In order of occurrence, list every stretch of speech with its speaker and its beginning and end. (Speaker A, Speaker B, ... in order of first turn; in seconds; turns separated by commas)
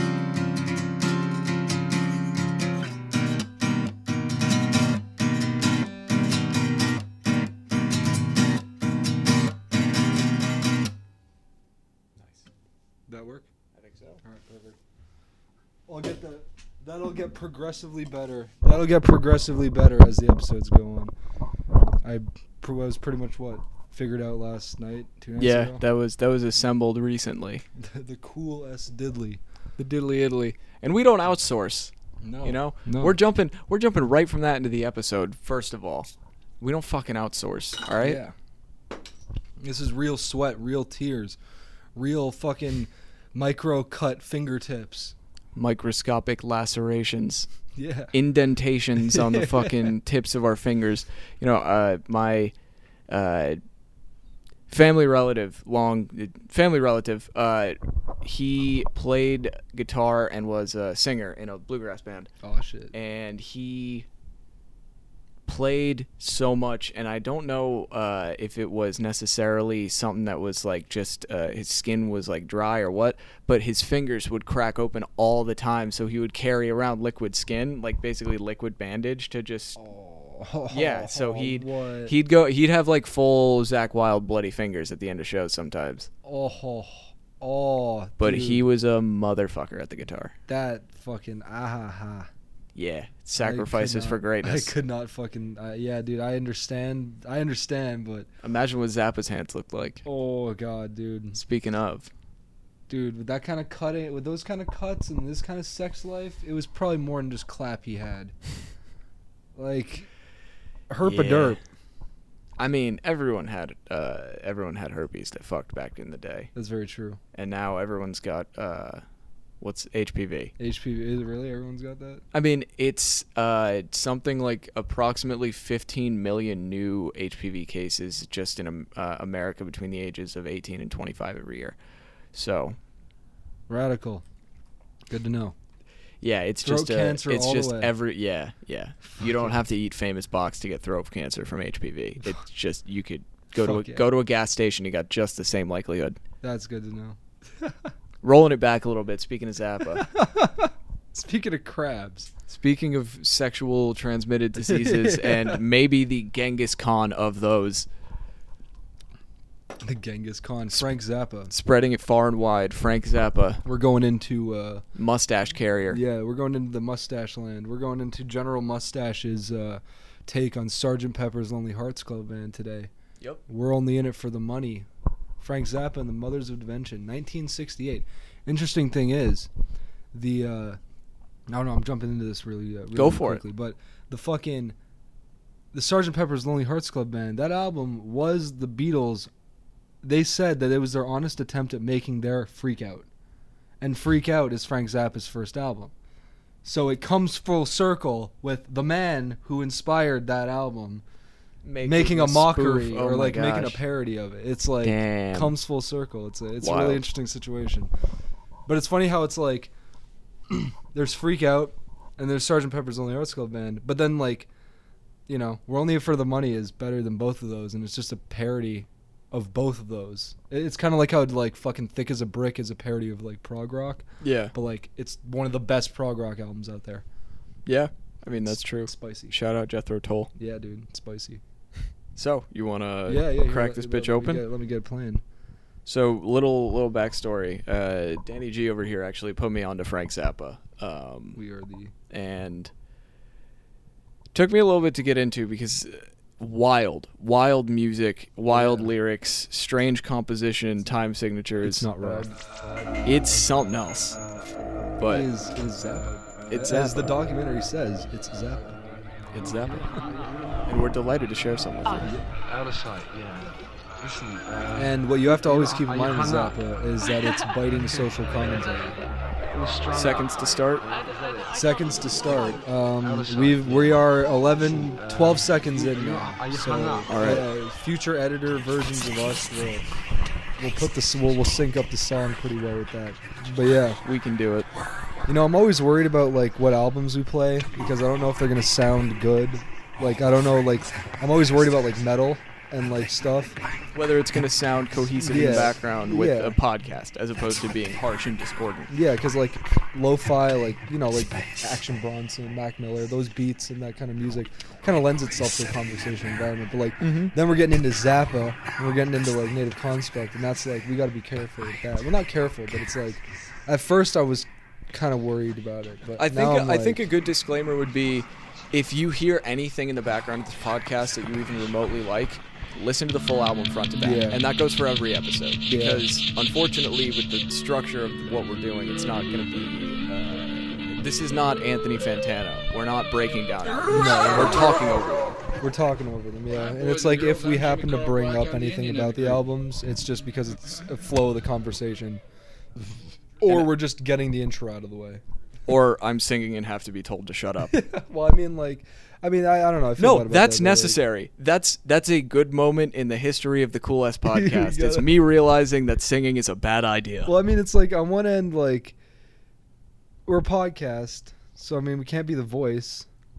Speaker A: 12.2-12.4, Speaker B: 13.1-13.5, Speaker A: 13.7-14.2, Speaker B: 14.2-14.8, Speaker B: 15.9-21.1, Speaker B: 22.0-25.8, Speaker A: 25.4-27.6, Speaker B: 27.8-29.4, Speaker A: 29.8-36.1, Speaker B: 32.2-33.1, Speaker A: 36.6-38.2, Speaker B: 38.0-38.3, Speaker B: 39.6-41.4, Speaker B: 42.0-45.1, Speaker A: 45.5-47.5, Speaker B: 47.7-48.1, Speaker A: 48.1-52.5, Speaker B: 49.1-49.8, Speaker A: 53.1-53.6, Speaker A: 54.7-62.3, Speaker B: 62.4-62.9, Speaker A: 62.9-64.0, Speaker A: 65.5-79.8, Speaker B: 79.8-82.1, Speaker A: 80.7-86.1, Speaker B: 86.2-88.6, Speaker A: 88.2-90.3, Speaker B: 90.5-92.3, Speaker A: 92.7-94.7, Speaker B: 93.4-98.3, Speaker A: 98.4-100.0, Speaker B: 100.0-101.4, Speaker A: 101.3-102.1, Speaker B: 102.9-108.3, Speaker B: 109.5-110.1, Speaker B: 110.9-111.6, Speaker A: 111.0-111.6, Speaker A: 112.6-116.5, Speaker B: 116.5-117.2, Speaker A: 117.3-119.0, Speaker A: 119.6-120.5, Speaker B: 120.6-122.2, Speaker A: 122.3-131.8, Speaker A: 132.3-132.8, Speaker B: 133.7-134.2, Speaker B: 135.1-135.5, Speaker A: 136.2-146.2, Speaker B: 136.6-137.9, Speaker B: 139.2-139.5, Speaker B: 143.6-144.1, Speaker B: 146.4-147.7, Speaker A: 148.2-150.1, Speaker B: 150.0-152.3, Speaker A: 152.5-157.9, Speaker B: 154.6-155.6, Speaker B: 159.8-161.5, Speaker A: 161.5-163.6, Speaker B: 163.6-164.8, Speaker A: 164.9-166.0, Speaker B: 165.9-172.9, Speaker B: 173.5-174.9, Speaker B: 175.4-179.5, Speaker B: 180.1-180.8, Speaker B: 181.5-184.7, Speaker A: 182.9-183.4, Speaker B: 185.7-189.3, Speaker B: 190.0-193.1, Speaker B: 193.8-195.9, Speaker B: 196.6-201.0, Speaker A: 201.6-203.8, Speaker B: 201.8-207.9, Speaker A: 204.8-205.5, Speaker A: 206.6-207.1, Speaker B: 208.7-209.7, Speaker B: 210.5-214.5, Speaker B: 215.3-227.0, Speaker A: 224.2-224.5, Speaker A: 227.7-230.3, Speaker B: 228.8-229.3, Speaker B: 230.3-231.4, Speaker A: 232.2-234.4, Speaker B: 233.1-235.2, Speaker A: 235.8-241.4, Speaker B: 241.3-241.9, Speaker A: 242.1-242.7, Speaker A: 244.3-252.3, Speaker B: 248.5-248.9, Speaker B: 251.6-252.3, Speaker A: 253.0-254.2, Speaker A: 255.0-255.3, Speaker B: 255.1-258.8, Speaker A: 256.5-257.1, Speaker A: 259.3-259.9, Speaker A: 260.7-262.1, Speaker B: 262.0-262.3, Speaker C: 262.4-266.6, Speaker B: 264.7-269.0, Speaker C: 269.5-271.5, Speaker A: 269.9-270.9, Speaker B: 271.5-279.9, Speaker C: 273.0-274.1, Speaker C: 274.9-277.1, Speaker A: 277.1-277.5, Speaker B: 280.6-284.0, Speaker A: 284.0-284.7, Speaker B: 285.3-293.6, Speaker A: 293.9-298.9, Speaker B: 295.2-296.6, Speaker B: 298.9-317.0, Speaker A: 307.0-307.3, Speaker A: 316.2-335.4, Speaker B: 324.0-324.4, Speaker B: 325.7-326.1, Speaker B: 333.9-334.8, Speaker B: 335.6-342.2, Speaker C: 336.6-339.4, Speaker B: 343.4-345.2, Speaker A: 343.4-343.7, Speaker A: 345.6-347.8, Speaker B: 347.6-351.0, Speaker A: 350.0-357.3, Speaker B: 354.3-355.1, Speaker B: 357.2-358.9, Speaker B: 360.2-363.1